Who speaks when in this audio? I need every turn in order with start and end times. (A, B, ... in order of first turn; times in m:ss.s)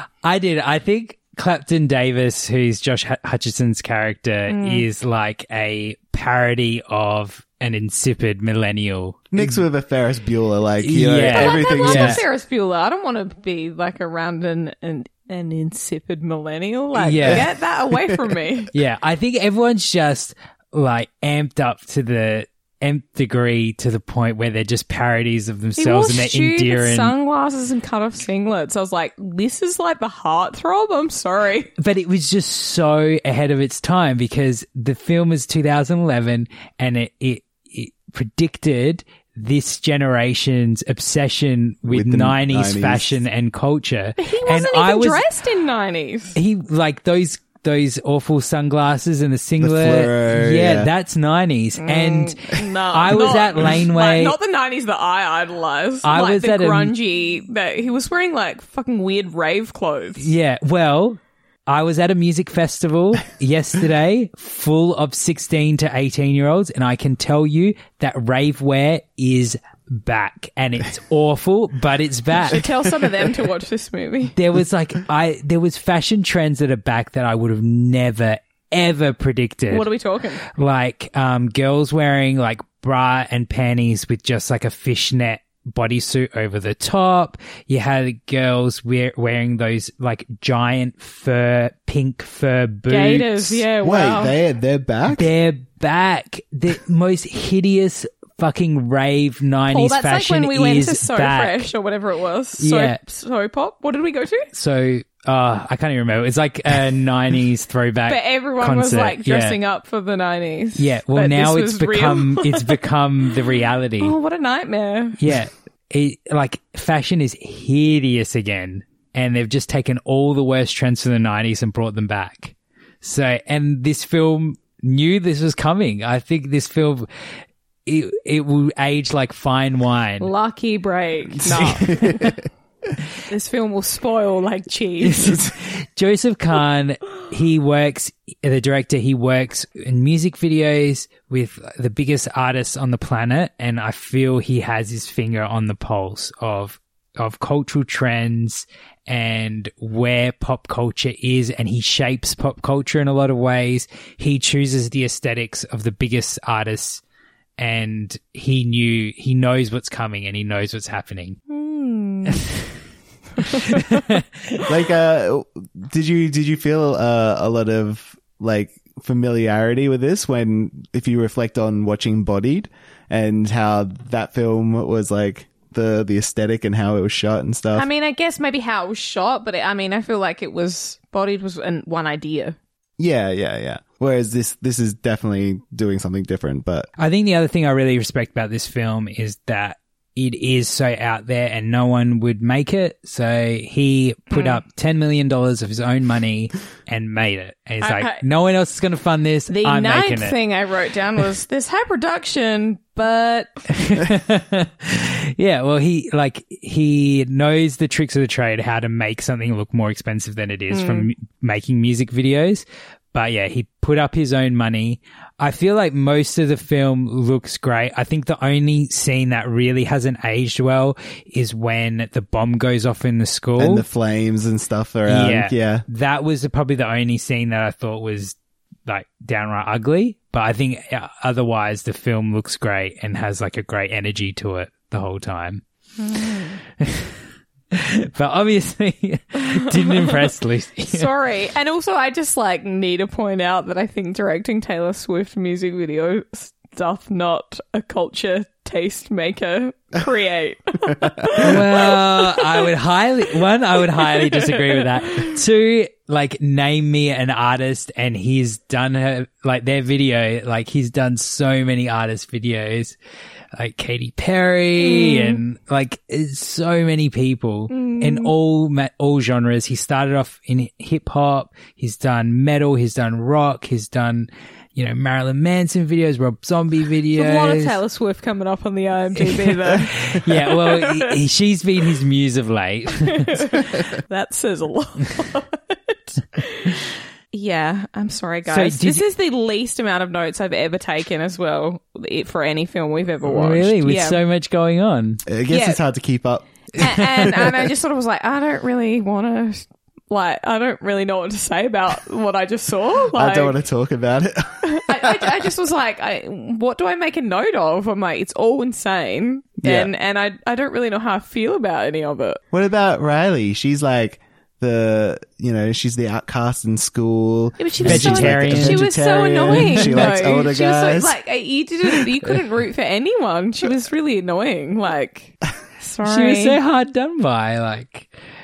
0:00.2-0:09.6 A
0:04.5-0:04.9 B
0:09.3-0:12.2 C
0:10.8-0:12.2 A
0:11.3-0:18.7 B
0:17.0-0:17.5 A
0:18.7-0:27.1 A
0:25.8-0:31.7 B
0:31.8-0:45.2 A
0:41.9-0:43.2 C
0:44.2-0:46.4 B
0:46.4-0:54.4 A
0:49.6-0:50.9 C
0:51.8-1:00.3 B
0:56.0-0:57.0 A
1:00.2-1:12.7 A
1:12.4-1:14.3 B
1:14.4-1:19.9 A
1:19.7-1:20.4 B
1:20.4-1:33.6 A
1:32.9-1:34.3 B
1:33.8-1:35.3 C
1:35.1-1:41.7 A
1:39.7-1:44.5 B
1:42.6-1:43.0 A
1:44.5-1:49.6 A
1:48.1-1:53.3 B
1:50.8-1:54.2 A
1:54.0-1:55.2 B
1:55.2-2:07.1 A
2:07.9-2:10.3 A
2:10.2-2:12.0 B
2:11.5-2:12.3 A
2:11.8-2:12.4 C
2:13.3-2:15.4 B
2:15.0-2:37.0 A
2:37.6-2:41.4 A
2:41.5-2:42.4 B
2:42.3-2:42.6 A
2:43.4-2:44.0 B
2:43.7-2:44.2 A
2:44.7-2:57.9 C
2:57.8-3:02.6 B
3:03.0-3:06.9 C
3:07.0-3:20.4 A
3:14.3-3:14.6 B
3:17.8-3:18.2 B
3:19.5-3:23.6 B
3:23.7-3:43.8 A
3:30.7-3:31.1 B
3:43.6-3:45.8 C
3:45.1-3:48.4 A
3:48.9-3:55.6 A
3:56.0-3:56.6 B
3:56.8-3:57.2 A
3:57.7-4:01.1 A
3:59.4-4:00.2 B
4:00.9-4:12.7 B
4:11.4-4:23.0 A
4:14.0-4:15.3 B
4:23.6-4:37.8 A
4:24.8-4:25.4 B
4:27.7-4:28.3 B
4:37.2-4:41.1 B
4:39.2-4:43.5 A
4:43.1-4:46.8 B
4:47.3-4:54.2 B
4:48.5-4:49.1 A
4:53.2-4:55.2 A
4:55.3-4:56.5 C
4:55.5-4:55.8 B
4:56.8-5:03.6 B
4:56.8-4:57.3 A
5:03.1-5:05.4 C
5:04.7-5:12.4 B
5:09.6-5:09.9 C
5:12.5-5:21.2 C
5:17.6-5:26.6 B
5:17.8-5:18.9 A
5:19.5-5:20.2 A
5:26.0-5:28.1 A